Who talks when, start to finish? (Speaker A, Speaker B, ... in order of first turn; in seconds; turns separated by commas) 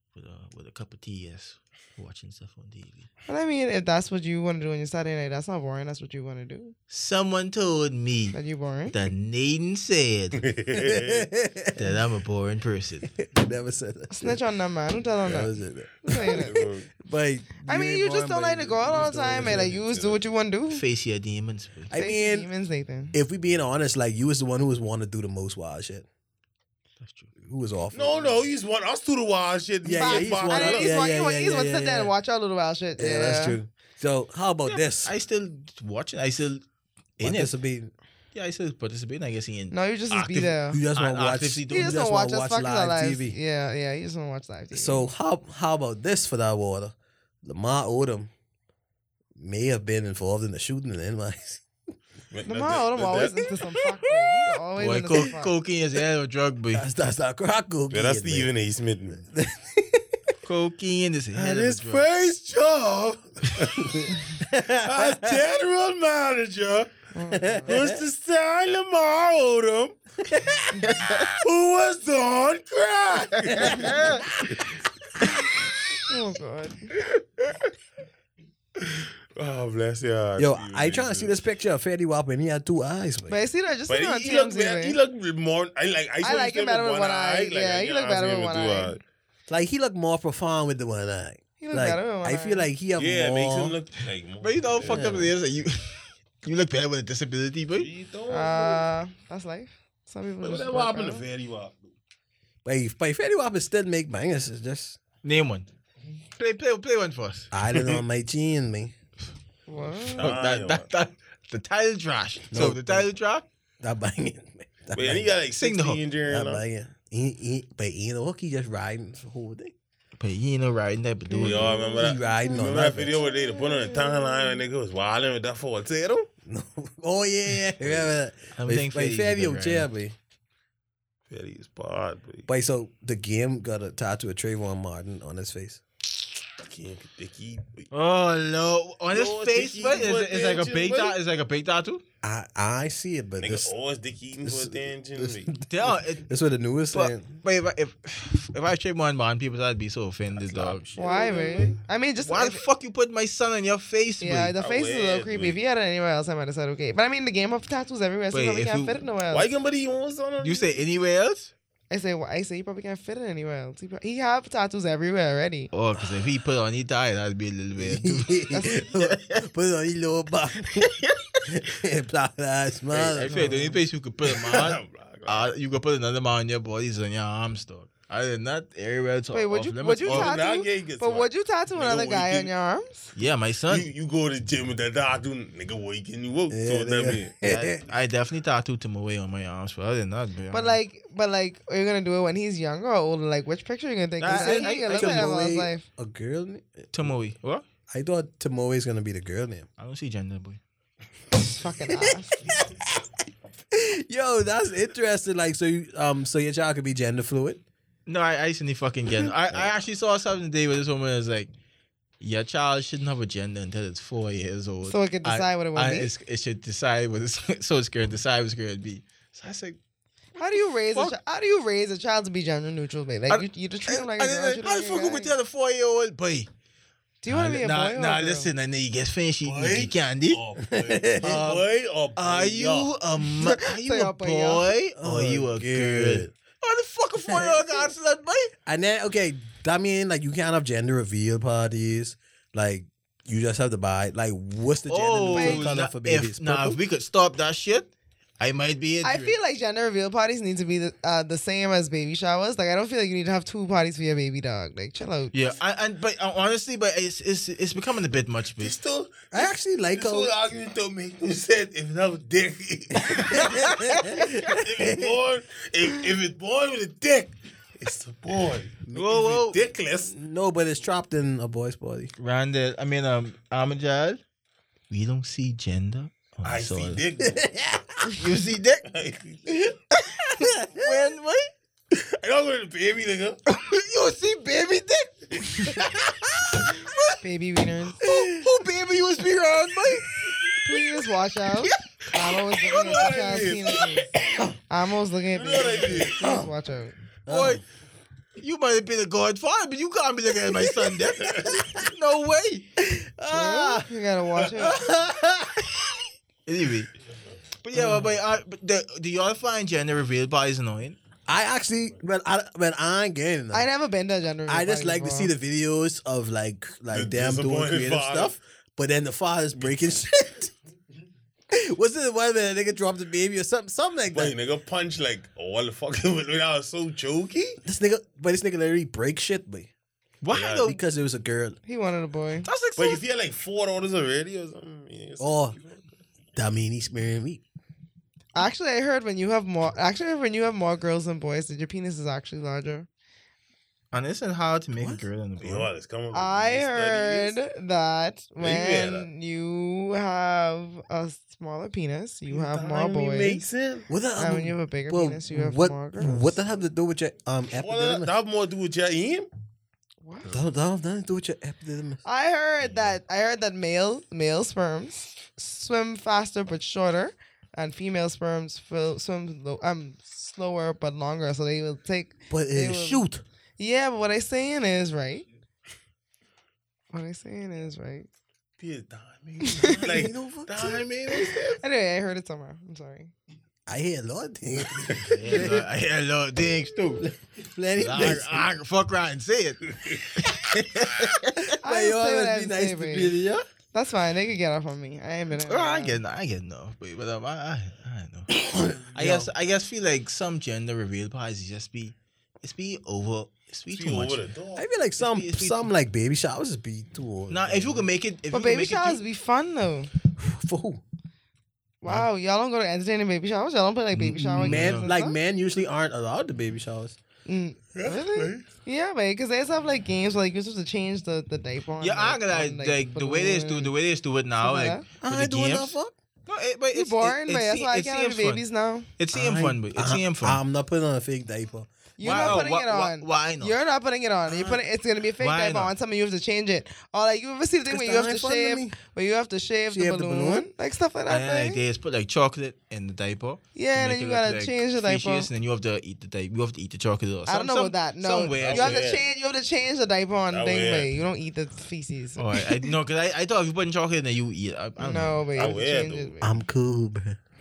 Speaker A: 0.1-3.1, Speaker B: 3.3-6.8, Speaker A: 6.9-8.4, Speaker B: 8.3-8.9, Speaker A: 8.9-10.4, Speaker C: 10.4-11.3, Speaker D: 10.7-12.0, Speaker A: 11.8-13.1, Speaker D: 13.2-14.4, Speaker B: 14.1-15.5, Speaker D: 15.2-19.8, Speaker B: 16.1-16.5, Speaker C: 16.1-16.9, Speaker B: 17.6-20.8, Speaker C: 18.9-20.2, Speaker A: 20.7-21.9, Speaker D: 21.9-22.5, Speaker B: 21.9-23.1, Speaker D: 23.1-26.1, Speaker A: 27.0-27.3, Speaker D: 27.4-28.4, Speaker C: 27.9-30.9, Speaker D: 29.8-32.1, Speaker B: 29.9-33.6, Speaker D: 33.0-35.1, Speaker A: 35.0-36.6, Speaker A: 37.2-37.5, Speaker D: 37.2-37.9, Speaker A: 38.3-42.0, Speaker B: 39.7-40.8, Speaker D: 40.7-43.4, Speaker B: 41.7-45.1, Speaker D: 44.7-48.3, Speaker D: 49.4-51.6, Speaker C: 52.3-53.6, Speaker B: 52.5-55.5, Speaker A: 54.8-56.9, Speaker D: 56.7-58.5, Speaker C: 57.9-59.2, Speaker D: 59.3-60.2, Speaker A: 60.4-62.0, Speaker C: 61.3-64.1, Speaker D: 63.8-65.4, Speaker C: 64.8-66.9, Speaker B: 67.1-67.7, Speaker D: 67.3-68.0, Speaker C: 67.7-70.0, Speaker D: 70.3-70.6, Speaker A: 70.8-71.3, Speaker C: 71.3-74.8, Speaker A: 73.5-74.2, Speaker D: 73.7-74.5, Speaker B: 76.1-76.9, Speaker C: 78.8-81.3, Speaker D: 80.4-83.4, Speaker B: 83.3-85.0, Speaker C: 83.9-89.0, Speaker B: 86.2-89.0, Speaker D: 89.5-93.8, Speaker B: 91.6-92.7, Speaker C: 93.0-95.3, Speaker A: 94.4-97.9, Speaker D: 94.8-95.3, Speaker C: 97.8-98.8, Speaker B: 98.3-101.2, Speaker C: 100.4-101.8, Speaker D: 102.7-105.0, Speaker A: 105.2-105.7, Speaker A: 106.4-107.5, Speaker D: 107.5-108.9, Speaker C: 107.7-108.0, Speaker B: 109.7-110.3, Speaker C: 110.0-110.9, Speaker A: 110.2-113.5, Speaker D: 112.5-113.1, Speaker D: 113.8-115.3, Speaker C: 114.9-116.6, Speaker A: 115.5-116.0, Speaker D: 116.3-119.7, Speaker A: 120.2-121.8, Speaker B: 121.3-122.5, Speaker C: 121.4-126.3, Speaker D: 122.0-123.2, Speaker B: 123.1-124.6, Speaker D: 126.5-130.2, Speaker C: 127.8-128.1, Speaker A: 128.6-129.9, Speaker C: 131.3-132.5, Speaker D: 132.5-135.8, Speaker C: 136.6-137.9, Speaker A: 137.9-142.0, Speaker C: 139.1-141.2, Speaker D: 142.2-143.7, Speaker C: 143.4-145.5, Speaker D: 144.4-147.4, Speaker A: 145.7-146.3, Speaker A: 146.9-150.9, Speaker C: 150.4-151.8, Speaker B: 151.0-152.6, Speaker A: 152.2-154.6, Speaker B: 154.2-159.5, Speaker C: 154.6-155.6, Speaker A: 158.3-159.0, Speaker C: 159.3-160.8, Speaker A: 160.4-161.5, Speaker B: 161.9-165.7, Speaker A: 165.7-169.5, Speaker D: 167.8-170.9, Speaker B: 168.5-168.8, Speaker A: 170.7-171.4, Speaker D: 171.4-173.5, Speaker C: 172.9-173.2, Speaker A: 173.1-180.3, Speaker B: 173.3-173.8, Speaker C: 174.3-175.5, Speaker B: 179.3-183.1, Speaker C: 180.1-182.5, Speaker A: 183.2-183.9, Speaker C: 183.7-187.4, Speaker D: 186.5-187.8, Speaker A: 187.4-190.8, Speaker B: 190.5-195.8, Speaker A: 194.2-195.4, Speaker D: 194.3-197.1, Speaker A: 196.9-197.7, Speaker D: 197.9-199.7, Speaker A: 199.8-200.6, Speaker B: 201.4-202.4, Speaker D: 202.1-203.0, Speaker D: 203.7-207.6, Speaker A: 208.1-211.5, Speaker A: 212.2-219.8, Speaker B: 214.9-216.1, Speaker B: 220.4-225.3, Speaker A: 223.3-226.5, Speaker B: 227.2-228.5, Speaker A: 227.3-230.4, Speaker C: 229.4-232.9, Speaker D: 230.6-231.6, Speaker A: 231.2-231.6, Speaker A: 232.2-238.5, Speaker B: 233.4-234.7, Speaker D: 235.0-236.3, Speaker D: 237.3-237.9, Speaker D: 238.7-246.8, Speaker A: 244.9-249.4, Speaker B: 245.3-245.7, Speaker B: 249.0-255.3, Speaker A: 255.3-258.8, Speaker C: 258.6-270.1, Speaker D: 259.3-260.3, Speaker D: 263.0-265.2, Speaker D: 268.9-269.4, Speaker A: 268.9-269.6, Speaker D: 270.1-272.1, Speaker A: 272.2-274.2, Speaker A: 274.9-277.0, Speaker C: 276.4-277.4, Speaker D: 277.2-277.9, Speaker A: 278.1-278.9, Speaker C: 278.9-279.7, Speaker A: 280.2-281.5, Speaker D: 280.4-281.1, Speaker C: 281.9-283.4, Speaker A: 283.5-285.9, Speaker A: 286.7-287.2, Speaker B: 287.2-288.0, Speaker A: 288.0-290.1, Speaker D: 288.0-288.5, Speaker B: 290.6-294.1, Speaker C: 292.6-294.1, Speaker B: 294.7-296.9, Speaker C: 295.3-296.2, Speaker D: 296.1-296.5, Speaker D: 297.3-297.6, Speaker A: 297.3-297.6, Speaker A: 298.4-302.6, Speaker C: 301.2-301.6, Speaker D: 302.8-303.9, Speaker B: 303.3-304.8, Speaker D: 304.4-305.6, Speaker A: 306.5-306.9, Speaker A: 307.6-311.0, Speaker D: 307.7-308.1, Speaker D: 311.3-313.7, Speaker B: 313.5-315.3, Speaker D: 314.5-320.5, Speaker C: 316.9-318.4, Speaker C: 319.6-319.9, Speaker D: 321.5-324.4, Speaker C: 324.1-327.6, Speaker D: 327.6-329.7, Speaker A: 330.2-330.8, Speaker C: 330.3-330.7, Speaker D: 330.6-331.6, Speaker B: 331.7-332.5, Speaker A: 332.5-333.0, Speaker C: 332.8-335.9, Speaker D: 335.2-335.6, Speaker D: 336.4-337.4, Speaker B: 338.4-342.9, Speaker A: 343.9-345.7, Speaker D: 344.8-345.1, Speaker C: 345.4-347.4, Speaker B: 346.1-353.4, Speaker C: 348.4-349.1, Speaker C: 352.3-353.9, Speaker D: 353.9-358.1, Speaker B: 354.2-356.4, Speaker C: 357.6-359.3, Speaker B: 360.0-360.4, Speaker D: 360.3-362.0, Speaker B: 362.1-373.1, Speaker D: 372.3-373.2, Speaker B: 373.6-375.2, Speaker B: 376.9-378.1, Speaker C: 378.6-381.4, Speaker B: 379.4-379.8, Speaker D: 379.8-380.8, Speaker A: 380.5-381.4, Speaker B: 381.6-383.1, Speaker D: 383.7-385.7, Speaker C: 384.9-385.6, Speaker A: 385.1-387.1, Speaker D: 387.0-388.5, Speaker A: 387.8-391.5, Speaker D: 391.4-393.4, Speaker B: 391.6-393.1, Speaker B: 393.7-396.0, Speaker A: 395.5-398.3, Speaker D: 398.3-399.3, Speaker A: 398.9-404.3, Speaker C: 403.7-404.7, Speaker D: 404.6-407.9, Speaker A: 405.0-405.7, Speaker A: 407.3-409.0, Speaker B: 408.3-409.9, Speaker D: 410.2-410.8, Speaker B: 411.8-415.2, Speaker A: 414.0-414.9, Speaker D: 414.0-417.0, Speaker B: 417.3-423.7, Speaker C: 417.8-418.5, Speaker A: 421.8-425.8, Speaker B: 424.4-424.9, Speaker D: 425.0-425.9, Speaker A: 426.3-428.4, Speaker B: 426.7-428.9, Speaker A: 429.0-430.4, Speaker D: 429.1-432.4, Speaker B: 432.0-441.6, Speaker A: 432.0-433.6, Speaker A: 435.2-435.7, Speaker D: 437.7-438.8, Speaker D: 439.7-440.5, Speaker A: 441.1-448.8, Speaker B: 443.6-445.3, Speaker B: 447.3-452.3, Speaker C: 448.4-449.1, Speaker C: 450.3-451.0, Speaker A: 452.2-455.3, Speaker B: 454.8-456.4, Speaker C: 455.4-456.2, Speaker D: 456.2-457.2